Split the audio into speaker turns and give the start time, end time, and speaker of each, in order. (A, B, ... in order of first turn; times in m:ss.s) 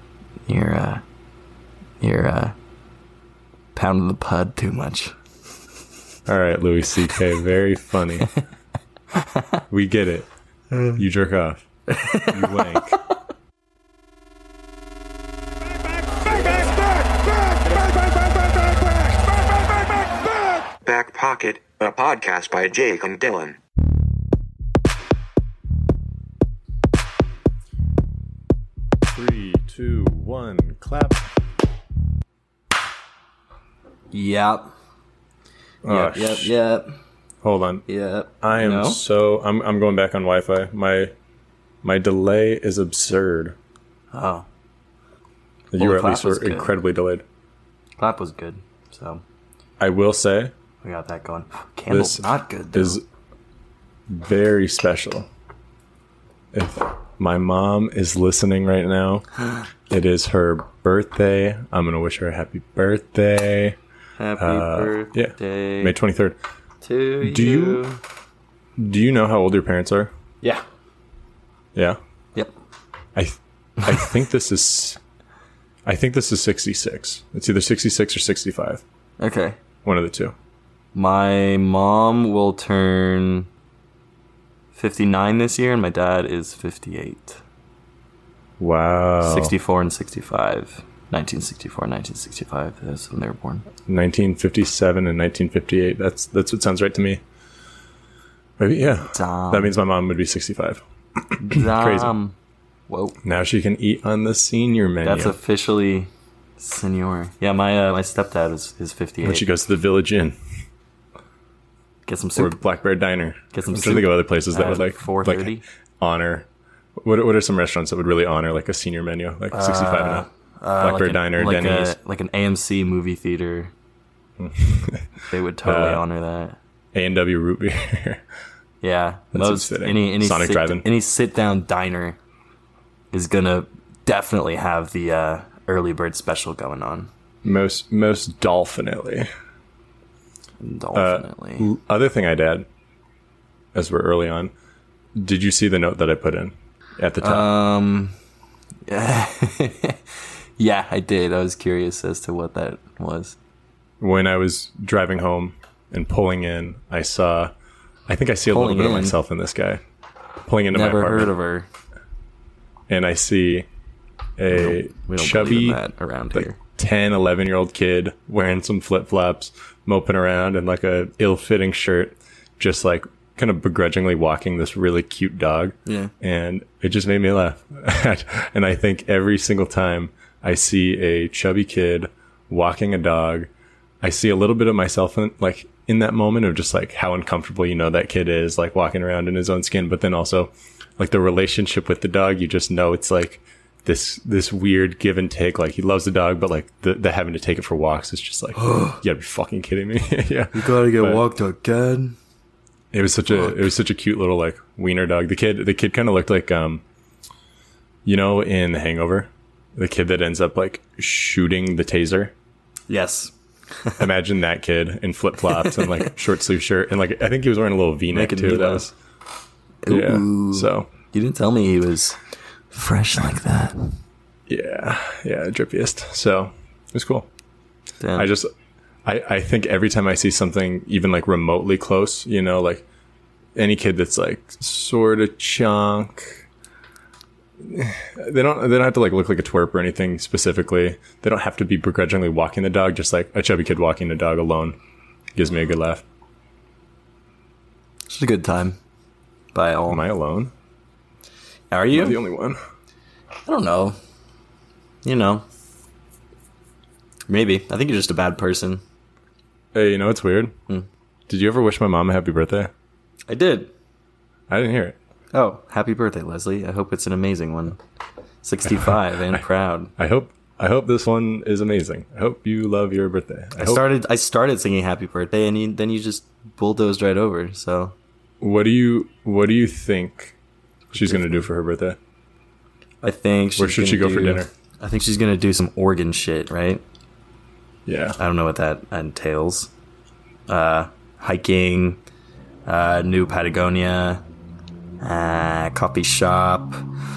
0:00.5-0:01.0 A
0:02.0-0:02.5 A
0:03.7-0:05.1 A
0:06.3-0:08.3 B
0:09.2-0:09.6 A
0:09.7-0:10.3 B
0:10.7-0:11.0 A
0:10.9-0:11.6 B
0:11.9-0:13.2 A
0:12.2-0:13.0 B
0:16.6-0:19.2 C
0:20.8-0:23.6 C
0:29.1-0:31.2 B
0:34.1-0:34.7 A
0:35.8-0:36.5 B
0:35.9-0:36.9 A
0:37.4-0:37.8 B
0:37.9-0:39.0 A
0:38.4-0:41.1 B
0:41.8-0:43.5 B
0:44.1-0:44.4 A
0:45.7-0:47.2 B
0:45.7-0:46.7 A
0:48.0-0:49.2 A
0:49.8-0:50.5 B
0:50.8-0:53.0 A
0:51.9-0:53.0 B
0:54.1-0:55.3 B
0:56.5-0:59.3 B
0:59.9-1:03.8 B
1:04.2-1:06.0 A
1:04.4-1:06.4 B
1:06.8-1:08.0 A
1:07.2-1:07.8 B
1:08.8-1:10.1 B
1:13.1-1:15.0 B
1:15.8-1:18.8 B
1:19.2-1:19.6 A
1:19.8-1:20.3 B
1:20.9-1:23.5 A
1:24.7-1:27.4 A
1:28.6-1:29.5 B
1:29.2-1:33.6 A
1:33.8-1:37.2 B
1:38.6-1:42.1 B
1:39.1-1:39.7 A
1:41.4-1:42.3 A
1:42.9-1:43.2 A
1:43.2-1:45.4 B
1:45.0-1:49.4 A
1:49.2-1:50.4 B
1:52.1-1:52.6 A
1:52.4-1:56.5 B
1:53.5-1:55.6 A
1:57.0-2:00.2 B
1:59.5-2:03.7 A
2:00.8-2:02.0 B
2:04.4-2:06.0 B
2:05.3-2:06.6 A
2:06.9-2:08.2 B
2:08.8-2:12.2 A
2:09.3-2:10.9 B
2:13.1-2:17.1 A
2:17.4-2:19.3 B
2:20.6-2:21.7 A
2:20.9-2:22.7 B
2:23.7-2:24.5 B
2:25.2-2:27.5 B
2:27.2-2:28.1 A
2:28.9-2:30.0 A
2:30.6-2:33.4 A
2:34.0-2:37.5 B
2:38.1-2:39.8 B
2:38.5-2:39.2 A
2:40.4-2:41.3 B
2:40.7-2:41.7 A
2:42.9-2:43.7 B
2:44.4-2:45.8 B
2:44.5-2:46.6 A
2:46.3-3:03.5 B
2:55.8-2:56.1 A
3:04.0-3:21.2 B
3:18.6-3:19.0 A
3:20.5-3:22.2 A
3:22.9-3:26.8 B
3:23.3-3:23.6 A
3:28.0-3:32.3 B
3:32.9-3:34.0 A
3:34.0-3:38.9 B
3:35.6-3:36.1 A
3:38.1-3:38.9 A
3:39.8-3:42.2 A
3:39.9-3:40.9 B
3:42.7-3:44.0 A
3:44.5-3:47.3 B
3:48.0-3:48.3 A
3:48.2-3:48.5 B
3:49.0-3:52.8 B
3:53.6-3:56.4 B
3:57.6-4:04.8 B
4:05.3-4:06.0 B
4:08.1-4:08.8 A
4:09.5-4:10.0 A
4:09.9-4:10.5 B
4:11.7-4:12.2 A
4:11.9-4:12.6 B
4:13.4-4:14.0 A
4:15.0-4:15.4 A
4:17.3-4:18.8 A
4:19.7-4:20.5 B
4:21.3-4:22.7 B
4:23.3-4:23.7 A
4:24.5-4:25.0 B
4:25.3-4:27.8 A
4:28.4-4:29.9 A
4:28.7-4:29.4 B
4:30.0-4:33.8 B
4:33.6-4:37.9 A
4:38.4-4:40.3 B
4:40.9-4:41.4 A
4:40.9-4:42.0 B
4:43.0-4:46.8 A
4:43.6-4:44.5 B
4:47.8-4:48.2 B
4:48.2-4:49.7 A
4:50.5-4:52.0 A
4:52.6-4:54.2 A
4:55.0-4:56.8 A